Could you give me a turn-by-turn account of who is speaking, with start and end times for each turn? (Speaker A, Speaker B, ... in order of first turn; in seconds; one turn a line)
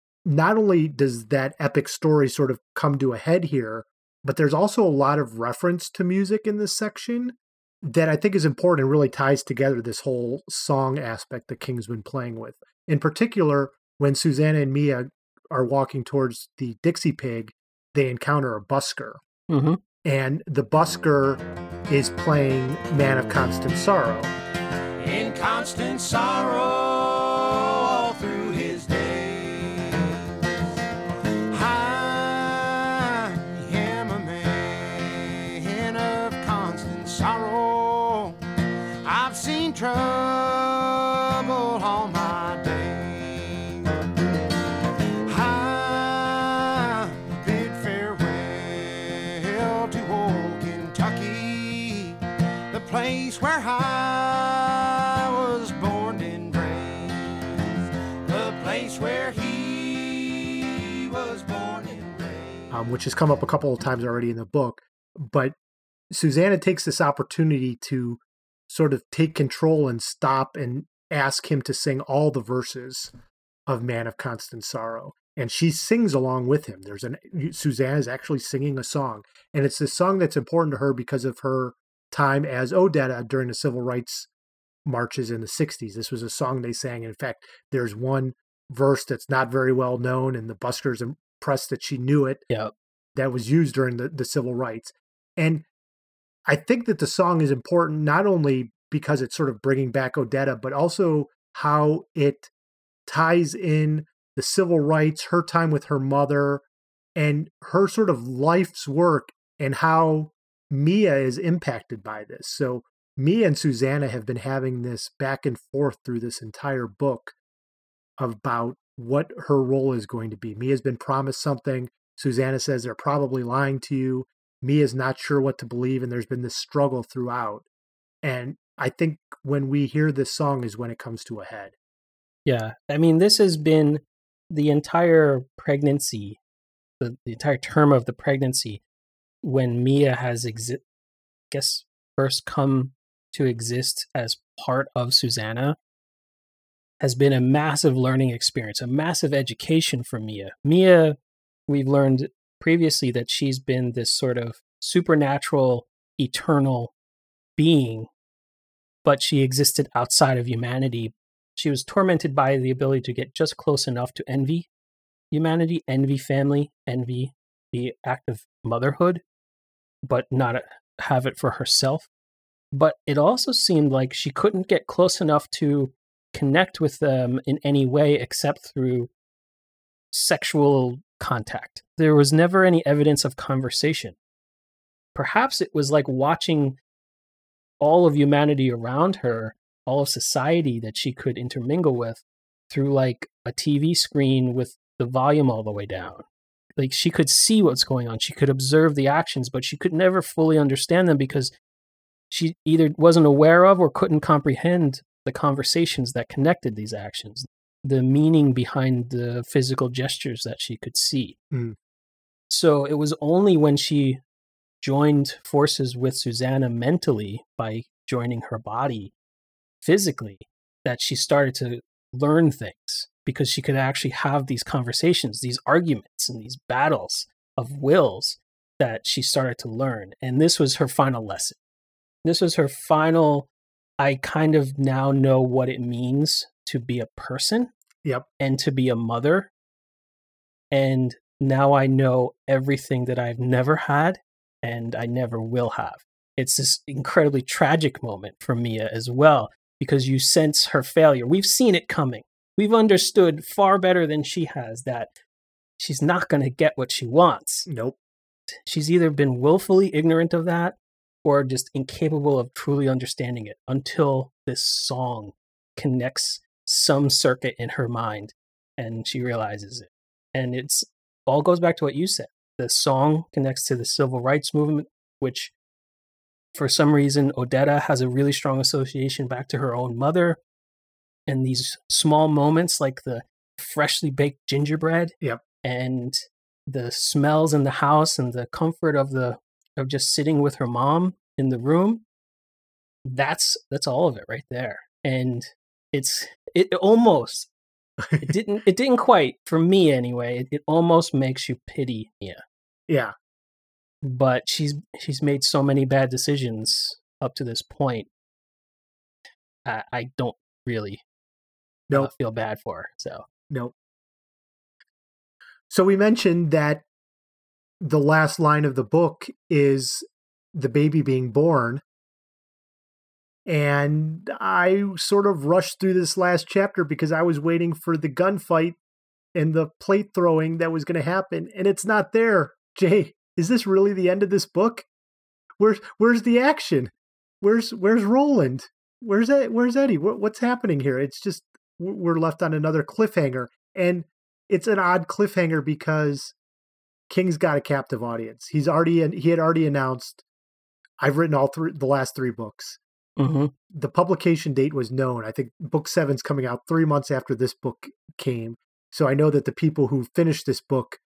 Speaker A: 0.2-19.2
Speaker B: 19.5-19.8
Speaker A: 20.0-24.3
Speaker C: 25.0-30.6
Speaker C: 31.5-38.4
Speaker C: 39.0-44.0
Speaker C: 45.2-52.2
Speaker C: 52.7-57.7
Speaker C: 58.2-62.7
Speaker A: 62.7-65.6
Speaker A: 66.1-73.1
Speaker A: 73.7-84.3
Speaker A: 84.9-92.4
Speaker A: 93.1-95.7
Speaker A: 96.5-102.5
Speaker A: 103.1-106.6
Speaker A: 107.2-117.3
Speaker A: 118.2-127.7
Speaker A: 128.2-131.7
Speaker B: 132.4-136.4
Speaker B: 137.0-138.8
Speaker B: 139.4-140.8
Speaker B: 141.5-145.8
Speaker B: 147.0-156.9
Speaker B: 157.6-158.1
Speaker B: 159.0-164.7
Speaker B: 165.3-169.2
Speaker B: 170.1-172.1
Speaker B: 172.7-179.1
Speaker B: 180.1-184.2
Speaker B: 185.1-186.8
Speaker B: 187.8-196.2
Speaker B: 196.8-201.5
Speaker B: 202.3-211.4
Speaker A: 211.5-211.8
Speaker B: 212.5-214.2
Speaker B: 214.8-219.1
Speaker B: 219.8-231.6
Speaker B: 232.2-233.5
Speaker B: 234.0-237.7
Speaker B: 238.4-239.5
Speaker B: 240.7-255.1
Speaker B: 255.8-257.7
Speaker A: 257.7-258.0
Speaker B: 258.6-275.5
Speaker B: 276.6-280.4
Speaker B: 281.3-292.0
Speaker B: 293.1-297.5
Speaker B: 298.2-302.4
Speaker A: 302.9-303.1
Speaker B: 304.0-308.1
Speaker B: 309.6-311.0
Speaker B: 311.9-313.2
Speaker A: 315.7-316.9
Speaker A: 317.8-321.8
Speaker A: 323.4-328.8
Speaker A: 329.4-334.9
Speaker A: 335.6-346.4
Speaker A: 347.1-350.2
Speaker A: 351.0-352.8
Speaker B: 353.2-353.5
Speaker A: 353.7-361.0